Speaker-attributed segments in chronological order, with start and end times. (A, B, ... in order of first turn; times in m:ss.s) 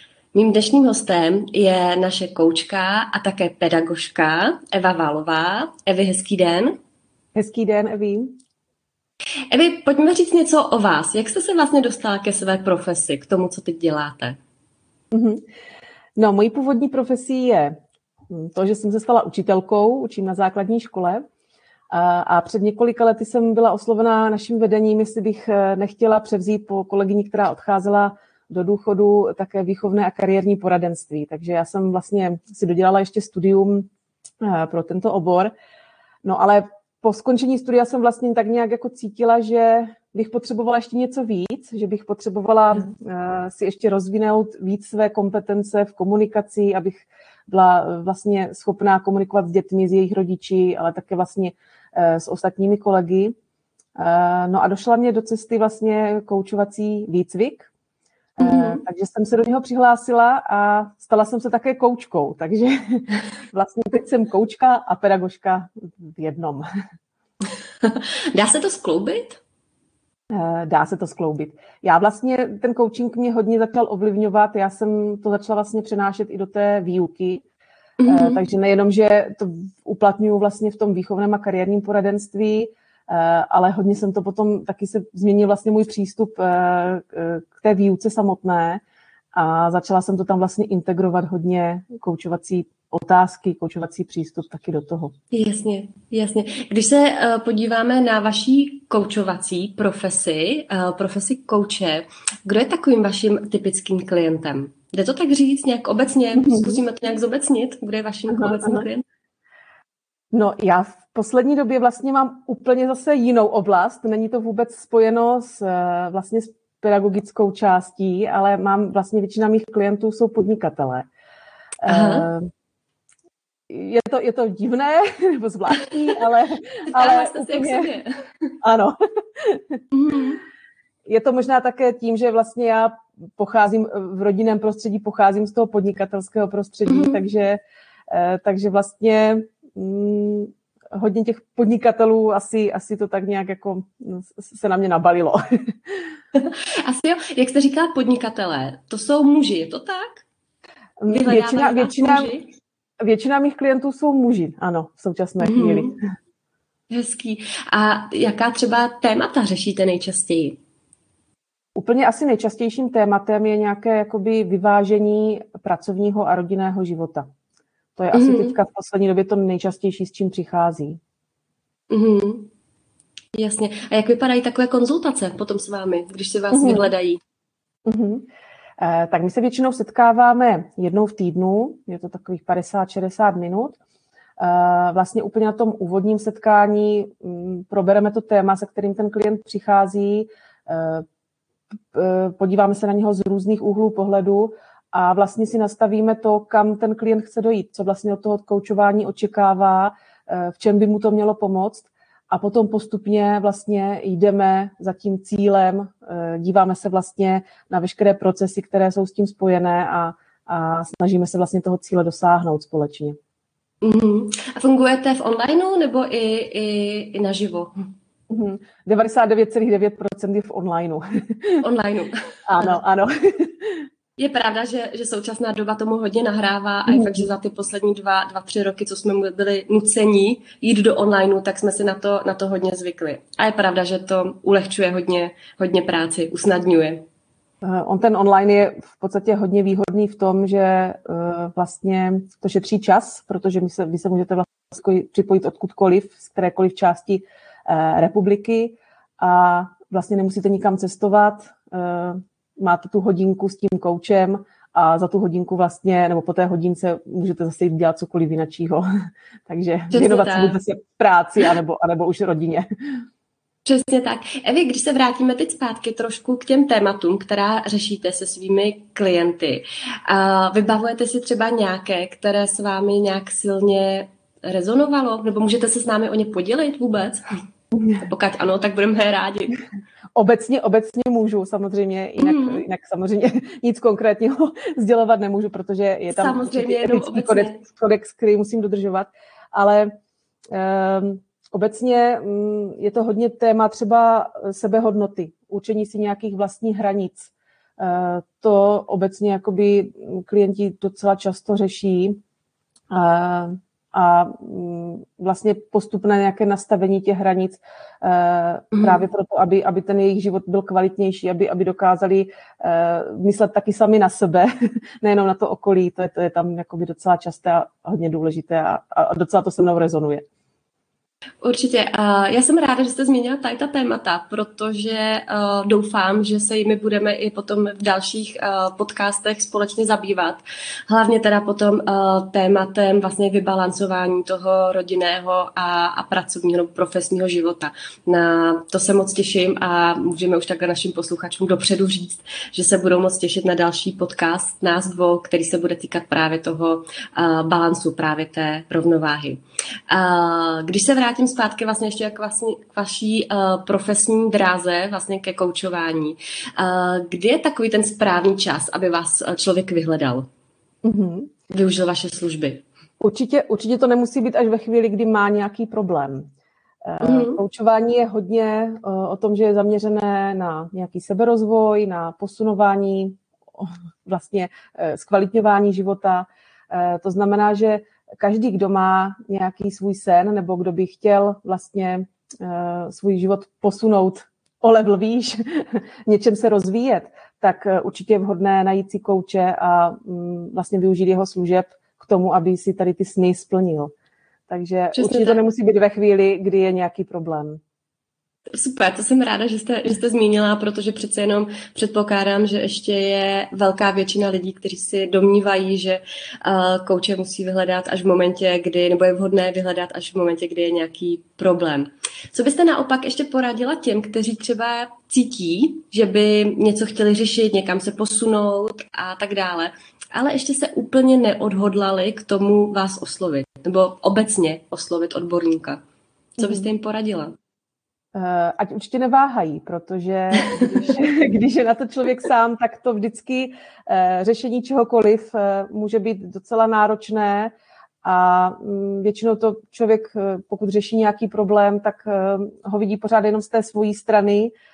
0:00.3-0:06.8 A
0:07.3-0:08.4 B
0:09.5-0:14.4 A
0:15.1-0:15.4 B
0:16.2-0:17.7 B
0:18.3-0:21.2 B
0:21.9-0:33.9 B
0:34.4-0:35.5 B
0:36.2-0:53.3 B
0:54.0-0:57.7 B
0:58.4-1:06.6 B
0:58.4-0:58.8 A
1:07.8-1:09.4 A
1:10.3-1:17.4 B
1:18.0-1:18.4 A
1:18.1-1:28.8 B
1:29.3-1:35.1 B
1:35.3-1:49.0 A
1:46.3-1:46.8 B
1:48.3-1:48.8 B
1:50.3-2:01.1 B
2:01.8-2:02.4 B
2:01.9-2:02.3 A
2:03.7-2:07.9 B
2:06.9-2:08.5 A
2:08.6-2:09.8 B
2:09.9-2:10.4 A
2:11.0-2:26.0 B
2:16.9-2:17.2 A
2:26.3-2:30.2 A
2:31.0-2:32.3 B
2:31.1-2:32.5 A
2:33.0-2:36.0 B
2:35.4-2:35.9 A
2:36.9-2:40.6 A
2:41.8-2:47.2 B
2:48.0-2:51.0 B
2:48.1-2:48.6 A
2:51.9-2:52.5 A
2:53.3-2:57.2 A
2:56.5-2:56.9 B
2:57.8-2:58.3 B
2:58.8-3:03.8 B
3:04.4-3:11.0 B
3:11.9-3:33.2 B
3:33.8-3:37.7 A
3:38.3-3:41.6 B
3:41.6-3:42.7 A
3:42.5-3:43.8 B
3:44.2-3:57.0 A
3:46.9-3:47.3 B
3:57.6-4:18.8 B
4:19.5-4:22.6 B
4:19.9-4:20.6 A
4:23.6-4:37.2 A
4:38.0-4:39.6 A
4:40.1-4:49.9 B
4:42.2-4:42.6 A
4:46.1-4:47.6 A
4:50.5-5:02.2 B
5:02.9-5:20.2 B
5:08.7-5:09.0 A
5:21.4-6:00.3 A
6:00.8-6:01.3 B
6:01.5-6:02.6 A
6:03.0-6:06.3 B
6:06.8-6:33.9 B
6:07.0-6:07.4 A
6:34.5-6:37.6 B
6:34.9-6:35.4 A
6:38.5-7:05.8 A
7:06.4-7:07.3 A
7:06.4-7:06.7 B
7:08.1-7:17.5 B
7:10.5-7:10.9 A
7:18.0-7:24.5 B